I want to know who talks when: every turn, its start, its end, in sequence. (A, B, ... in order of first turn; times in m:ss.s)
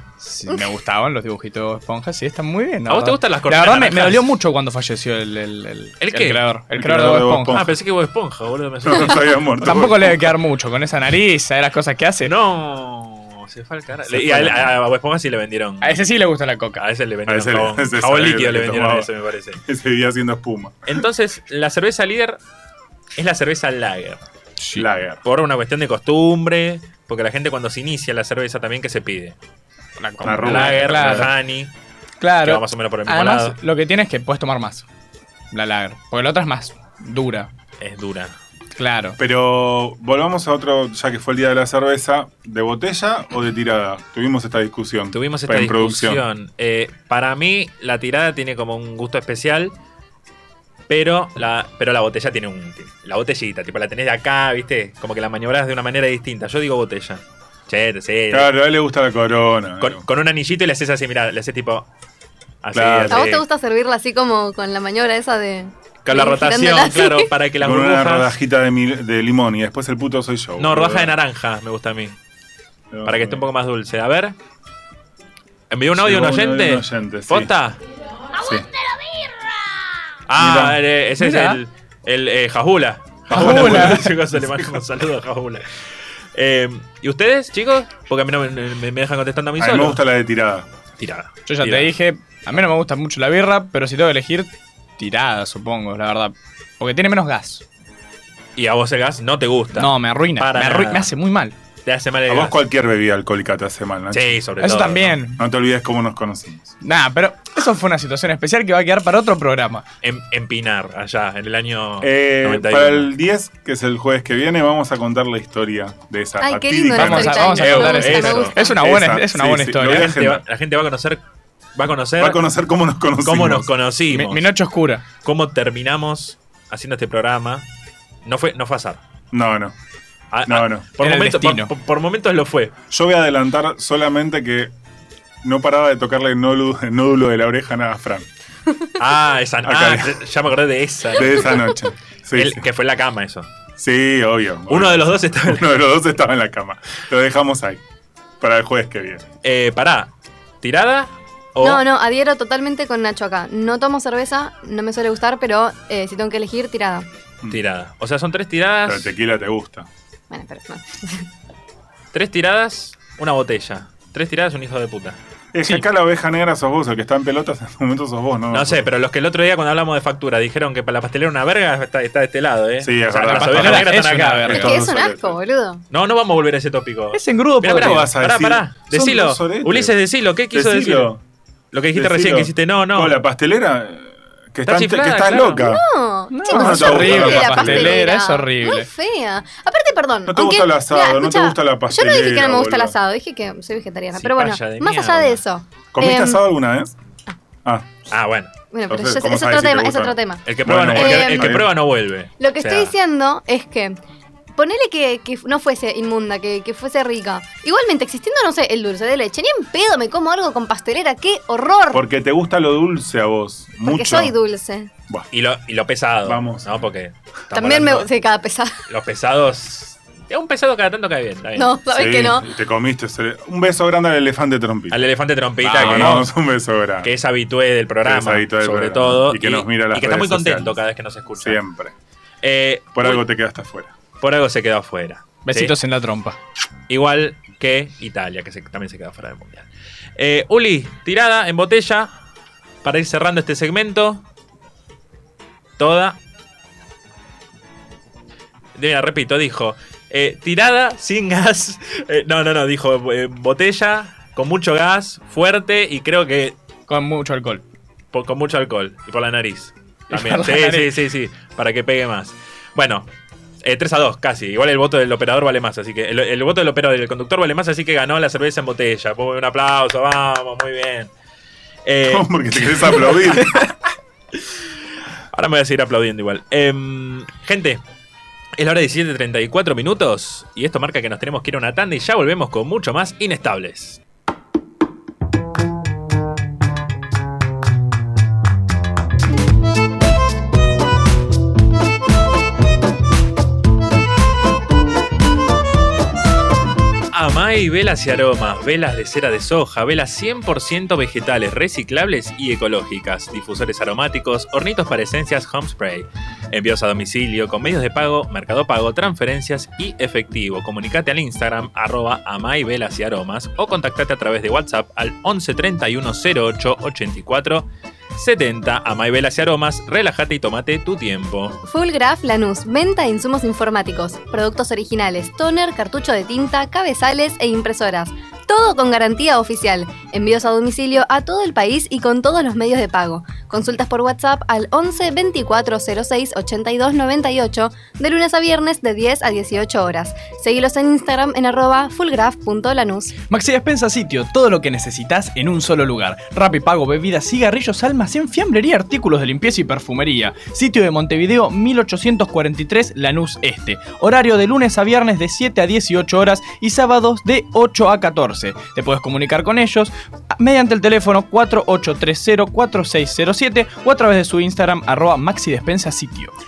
0:00.2-0:07.6 A
0:02.9-0:04.3 B
0:06.0-0:06.4 B
0:06.8-0:07.8 C
0:07.5-0:09.4 B
0:08.8-0:10.3 C
0:09.6-0:12.4 A
0:12.2-0:16.0 B
0:14.1-0:14.6 C
0:15.8-0:16.8 A
0:16.8-0:19.6 B
0:17.3-0:21.0 C
0:20.9-0:22.4 B
0:23.2-0:24.2 B
0:24.6-0:24.9 A
0:24.8-0:25.2 C
0:25.2-0:29.4 B
0:30.0-0:31.4 A
0:30.2-0:31.7 B
0:30.2-0:31.3 C
0:32.2-0:34.9 A
0:32.4-0:33.6 B
0:35.5-0:37.5 A
0:37.8-0:38.4 B
0:38.8-0:39.2 A
0:39.2-0:46.2 C
0:45.1-0:49.7 B
0:50.9-0:58.5 B
0:58.3-1:00.0 C
0:59.8-1:01.9 B
1:02.6-1:03.4 B
1:02.7-1:03.3 C
1:03.1-1:07.3 D
1:06.0-1:08.3 B
1:07.6-1:11.2 C
1:10.6-1:12.2 B
1:12.9-1:13.5 C
1:13.0-1:14.4 B
1:15.7-1:17.8 B
1:16.0-1:17.5 C
1:18.4-1:18.7 C
1:20.3-1:25.7 B
1:20.4-1:20.8 C
1:21.2-1:21.6 A
1:23.3-1:24.1 A
1:23.4-1:24.6 C
1:26.4-1:30.1 B
1:29.6-1:30.7 C
1:31.0-1:32.0 B
1:31.5-1:37.6 A
1:38.6-1:41.1 B
1:39.7-1:41.6 A
1:41.8-1:42.6 B
1:42.3-1:44.4 C
1:44.1-1:45.2 B
1:44.6-1:45.4 A
1:45.4-1:46.7 C
1:46.8-1:49.8 A
1:50.0-1:53.1 B
1:52.0-1:57.8 C
1:56.4-1:58.8 D
1:56.9-2:00.1 A
1:57.6-1:58.6 B
1:58.8-2:00.4 C
1:59.9-2:01.2 B
2:01.8-2:02.4 B
2:02.2-2:03.7 C
2:03.2-2:04.5 B
2:04.1-2:05.0 A
2:05.2-2:07.7 B
2:08.2-2:09.0 B
2:09.3-2:09.8 C
2:10.3-2:12.7 B
2:10.5-2:10.9 C
2:11.0-2:11.7 A
2:12.9-2:14.7 C
2:15.4-2:18.3 C
2:19.0-2:21.6 B
2:19.6-2:20.2 C
2:21.2-2:22.7 C
2:22.3-2:23.5 B
2:23.8-2:27.8 C
2:24.7-2:25.6 B
2:28.4-2:29.2 C
2:29.4-2:31.8 B
2:31.6-2:37.1 D
2:37.5-2:39.1 B
2:38.8-2:39.9 C
2:40.3-2:41.3 D
2:42.1-2:45.2 B
2:45.5-2:48.9 C
2:48.5-2:54.7 B
2:52.8-2:55.4 C
2:53.3-2:54.7 A
2:54.5-2:55.8 D
2:55.9-3:01.1 B
2:57.1-2:58.1 A
2:57.7-3:01.2 C
3:01.7-3:03.2 B
3:01.9-3:05.8 C
3:04.6-3:05.7 B
3:05.6-3:16.4 D
3:06.3-3:08.9 A
3:06.5-3:08.1 C
3:10.3-3:13.0 C
3:14.1-3:15.4 B
3:15.9-3:17.0 C
3:17.6-3:17.9 C
3:18.1-3:18.5 B
3:18.7-3:21.6 D
3:18.9-3:21.7 C
3:20.4-3:22.9 B
3:22.4-3:24.0 D
3:24.6-3:32.1 D
3:31.9-3:34.3 C
3:33.9-3:34.9 D
3:35.3-3:38.1 B
3:36.2-3:36.9 C
3:37.5-3:38.8 D
3:38.9-3:41.7 B
3:41.6-3:42.5 D
3:41.9-3:45.1 C
3:44.9-3:46.3 B
3:45.6-3:47.1 C
3:45.8-3:46.2 A
3:47.0-3:51.6 B
3:48.0-3:50.8 C
3:51.4-3:51.9 C
3:52.4-3:53.3 B
3:52.9-3:53.9 C
3:54.2-3:55.8 B
3:55.4-3:56.4 A
3:56.9-4:02.1 B
4:02.8-4:04.2 B
4:05.8-4:06.2 B
4:08.8-4:16.6 B
4:16.9-4:17.6 A
4:18.1-4:23.1 B
4:20.1-4:21.0 A
4:23.6-4:31.1 B
4:31.8-4:33.5 B
4:32.1-4:33.8 C
4:35.3-4:37.8 B
4:38.6-4:44.0 B
4:57.1-5:21.6 B
5:21.6-5:43.1 D
5:43.3-6:06.3 A